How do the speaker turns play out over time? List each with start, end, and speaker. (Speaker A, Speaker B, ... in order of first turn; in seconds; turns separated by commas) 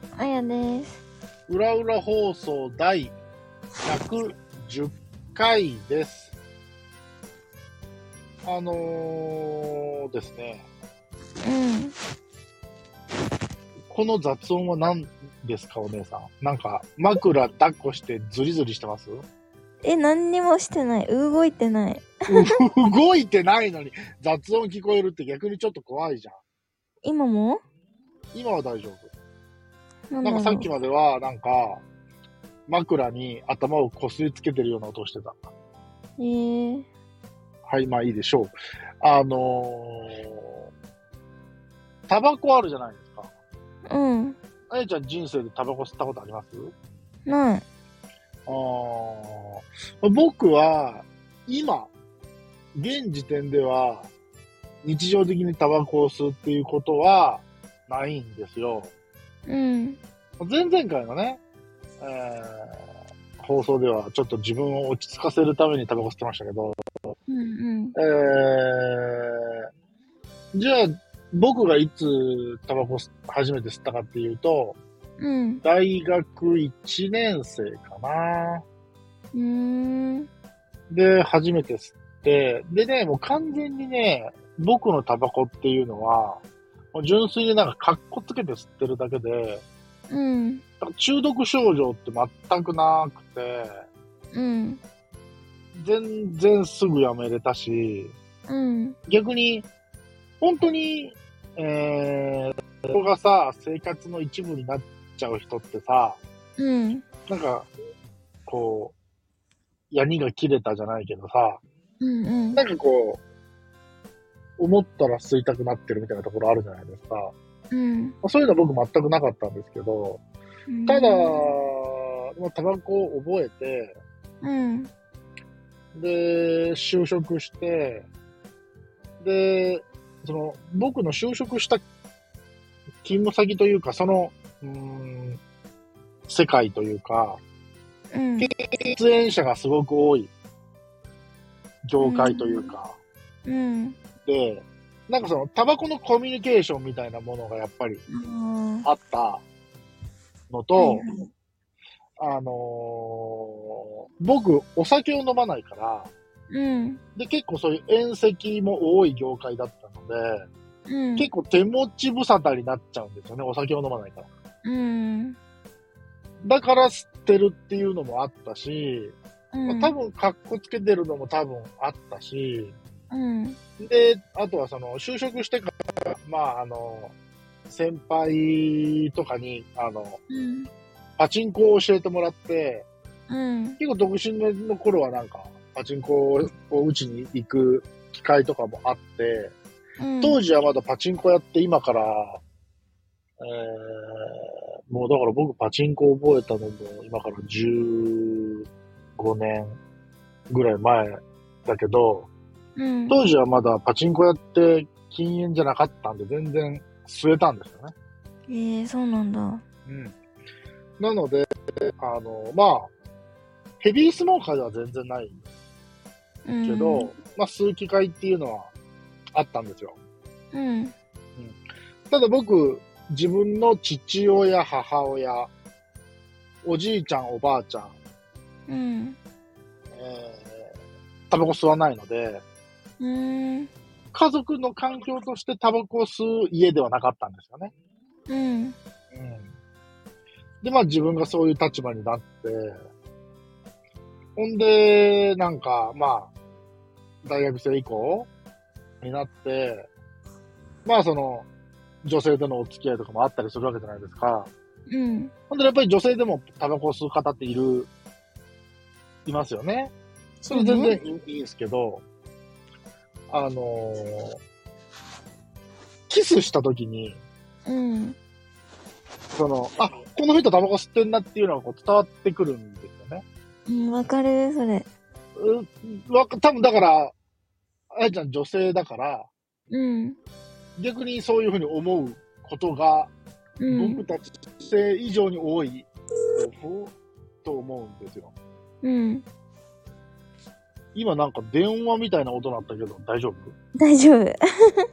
Speaker A: 0.1-1.0, Speaker B: 1.5-3.2, Speaker B: 3.8-6.3, Speaker B: 8.4-10.7, Speaker A: 11.4-11.9, Speaker B: 13.9-19.2, Speaker A: 19.8-22.5, Speaker B: 22.3-26.4, Speaker A: 27.0-27.6, Speaker B: 28.3-29.1, Speaker A: 30.1-30.7, Speaker B: 30.2-31.8, Speaker B: 32.7-35.5, Speaker A: 36.2-36.9, Speaker B: 37.7-40.7, Speaker B: 42.1-43.3, Speaker A: 43.9-44.4, Speaker B: 44.7-46.7, Speaker A: 47.2-47.6, Speaker B: 48.5-51.9, Speaker B: 52.7-54.1, Speaker B: 54.8-58.9, Speaker A: 59.5-60.0, Speaker B: 60.4-61.4, Speaker B: 62.0-62.8, Speaker B: 63.4-66.8, Speaker A: 67.3-67.9, Speaker B: 67.9-69.6, Speaker B: 70.5-74.8, Speaker A: 75.2-75.6, Speaker B: 75.6-78.6, Speaker A: 79.3-80.3, Speaker B: 80.9-86.4, Speaker B: 86.9-89.6, Speaker A: 90.1-90.6, Speaker B: 90.8-93.8, Speaker A: 94.3-94.8, Speaker B: 95.8-98.1, Speaker A: 98.5-99.0, Speaker B: 99.1-99.7, Speaker B: 100.4-106.2, Speaker A: 106.6-107.0, Speaker B: 107.3-107.7, Speaker B: 108.5-108.9, Speaker B: 109.9-111.6, Speaker A: 112.0-112.6, Speaker B: 112.5-113.2, Speaker B: 114.6-117.3, Speaker A: 117.7-118.2, Speaker B: 118.2-120.2, Speaker A: 120.7-121.5, Speaker B: 120.9-124.0, Speaker A: 124.4-124.9, Speaker B: 125.9-128.1, Speaker B: 129.2-131.8, Speaker B: 133.0-135.4, Speaker B: 136.3-137.4, Speaker A: 138.1-138.5, Speaker B: 138.4-140.3, Speaker B: 141.8-143.0, Speaker A: 142.0-142.7, Speaker A: 143.4-144.0, Speaker B: 144.2-148.0, Speaker A: 148.1-148.9, Speaker B: 148.8-149.4, Speaker B: 150.5-151.0, Speaker A: 150.8-151.3, Speaker B: 152.2-156.1, Speaker A: 156.5-157.0, Speaker B: 157.2-160.4, Speaker A: 160.9-161.3, Speaker B: 161.2-164.3, Speaker A: 164.7-165.4, Speaker B: 166.4-172.8, Speaker A: 169.5-169.9, Speaker A: 173.1-173.6, Speaker B: 173.8-177.2, Speaker B: 177.7-180.2, Speaker A: 180.3-180.7, Speaker B: 181.2-182.9, Speaker A: 183.3-183.8, Speaker B: 183.8-189.5, Speaker A: 190.0-190.4, Speaker B: 190.2-192.4, Speaker B: 193.4-199.8, Speaker B: 200.5-202.3, Speaker A: 202.8-203.2, Speaker B: 203.1-207.9, Speaker A: 208.5-209.6, Speaker B: 209.8-210.2, Speaker B: 211.0-212.9, Speaker B: 213.8-215.4, Speaker A: 216.4-217.1, Speaker B: 216.6-218.7, Speaker B: 219.3-220.0, Speaker A: 220.5-220.9, Speaker B: 221.4-225.5, Speaker B: 226.7-227.9, Speaker A: 228.7-229.2, Speaker B: 229.9-230.7, Speaker B: 231.3-232.4, Speaker A: 233.0-233.7, Speaker B: 234.1-237.7, Speaker A: 238.3-238.8, Speaker B: 239.1-239.5, Speaker B: 240.6-242.8, Speaker B: 244.4-246.3, Speaker B: 247.2-248.3, Speaker B: 249.0-249.9, Speaker B: 250.8-251.5, Speaker B: 252.0-254.5, Speaker A: 254.9-255.3, Speaker B: 255.5-257.9, Speaker B: 259.3-259.9, Speaker B: 260.4-262.0, Speaker A: 260.5-261.0, Speaker B: 263.3-264.4, Speaker B: 266.1-267.2, Speaker A: 267.7-268.2, Speaker B: 269.4-273.2, Speaker A: 273.7-274.9, Speaker B: 275.4-277.1, Speaker B: 277.9-279.3, Speaker A: 279.7-280.2, Speaker B: 280.8-283.1, Speaker A: 283.6-284.0, Speaker B: 283.7-288.3, Speaker A: 288.8-289.2, Speaker B: 290.9-293.6, Speaker A: 293.8-294.8